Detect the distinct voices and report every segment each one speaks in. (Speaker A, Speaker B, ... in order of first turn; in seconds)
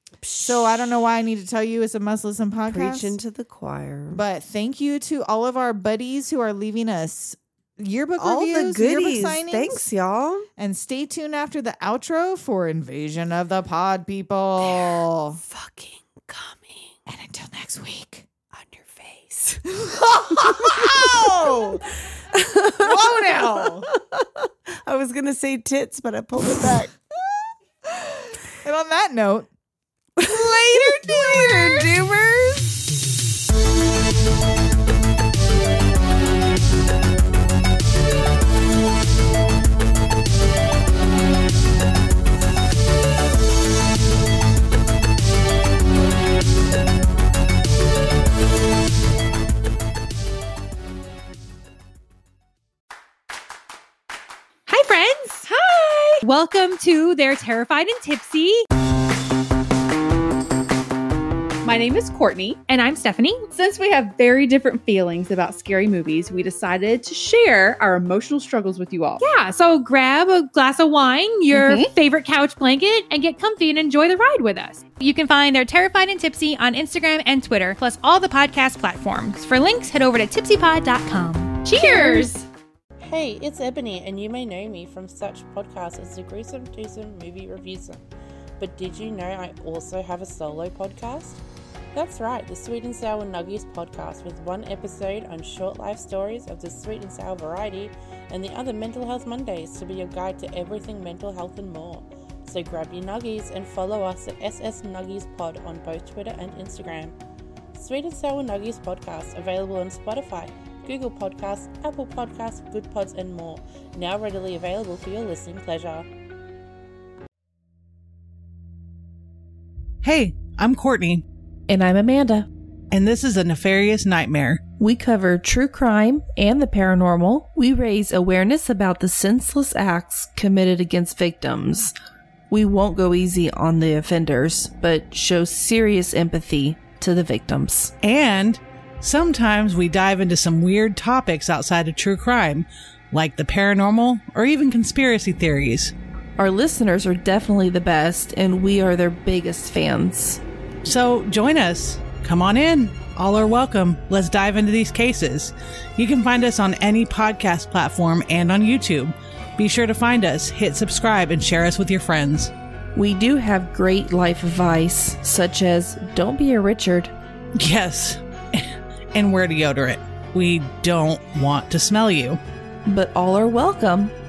Speaker A: 0.2-0.8, 2.7-4.2, 8.2-10.4, 14.6-16.9, 18.5-26.9, 30.2-33.0
Speaker B: 0.4-3.1, 4.1-9.9, 10.6-15.4, 17.1-18.3, 19.8-21.9, 22.8-23.9, 27.8-29.5, 30.2-31.9
Speaker C: 54.7-58.6, 62.7-63.5, 69.2-82.4
Speaker D: 61.6-62.6, 63.5-69.2, 71.5-71.9, 82.0-82.2
Speaker E: 81.8-82.2, 121.7-122.5, 124.8-131.9, 132.5-137.9, 146.4-150.4, 162.9-167.1, 172.9-174.1
Speaker F: 83.0-88.0, 88.6-91.4, 91.9-107.2, 107.7-116.1
Speaker G: 120.0-121.2, 122.9-124.6, 138.0-145.9, 150.8-162.5, 167.5-172.4